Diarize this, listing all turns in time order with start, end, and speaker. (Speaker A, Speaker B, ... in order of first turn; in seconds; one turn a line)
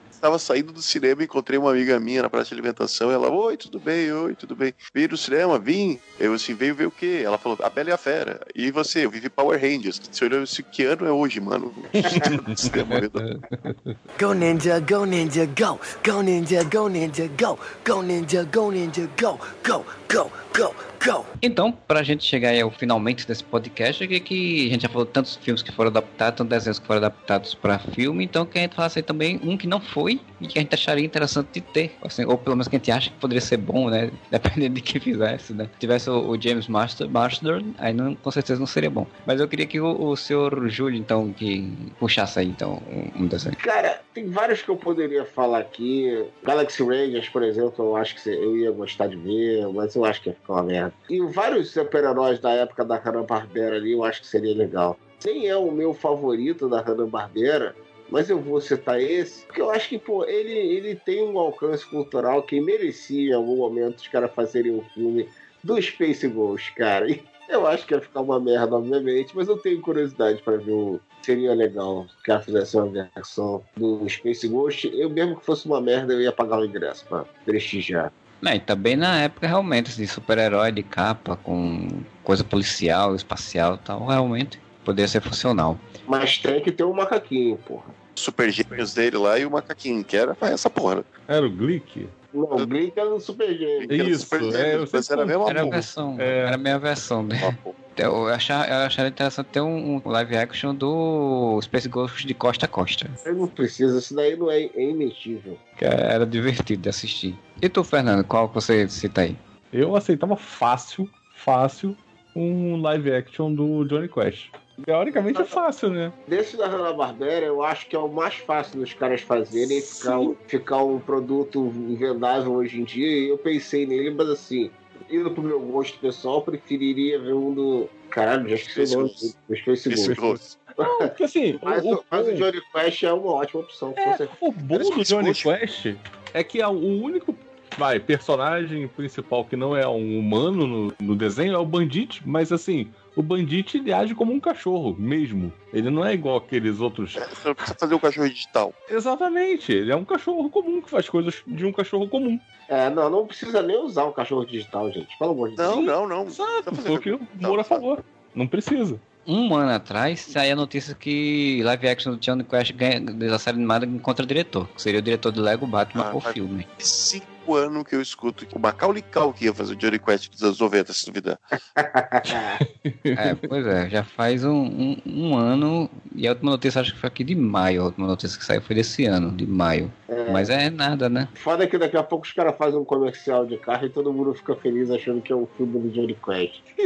Speaker A: 0.1-13.2
Speaker B: 12.0-14.0
Speaker C: 14.2-21.2
Speaker D: 21.4-43.6
Speaker E: 43.6-78.1
Speaker D: 78.4-85.8
Speaker E: 86.1-87.9
Speaker A: 88.2-91.0
Speaker B: 91.3-92.1
Speaker E: 92.3-94.0
Speaker A: 93.8-95.8
Speaker B: 93.9-96.6
Speaker D: 95.5-103.2
Speaker A: 97.4-97.7
Speaker E: 103.2-105.6
Speaker D: 105.8-109.4
Speaker B: 109.7-116.1
Speaker E: 115.3-115.6
Speaker E: 116.2-130.2
Speaker B: 119.8-120.3
Speaker A: 128.6-129.3
Speaker A: 129.9-130.6
Speaker B: 130.0-132.4
Speaker E: 130.8-134.3
Speaker B: 134.0-147.2
Speaker A: 134.7-135.5
Speaker A: 147.2-148.8
Speaker B: 148.9-152.4
Speaker E: 152.7-155.9
Speaker A: 155.6-157.8
Speaker B: 155.7-159.0
Speaker D: 159.2-166.7
Speaker A: 165.9-171.4
Speaker E: 171.8-172.6
Speaker B: 172.8-173.4
Speaker D: 173.2-181.3
Speaker E: 180.1-180.5
Speaker E: 181.3-186.7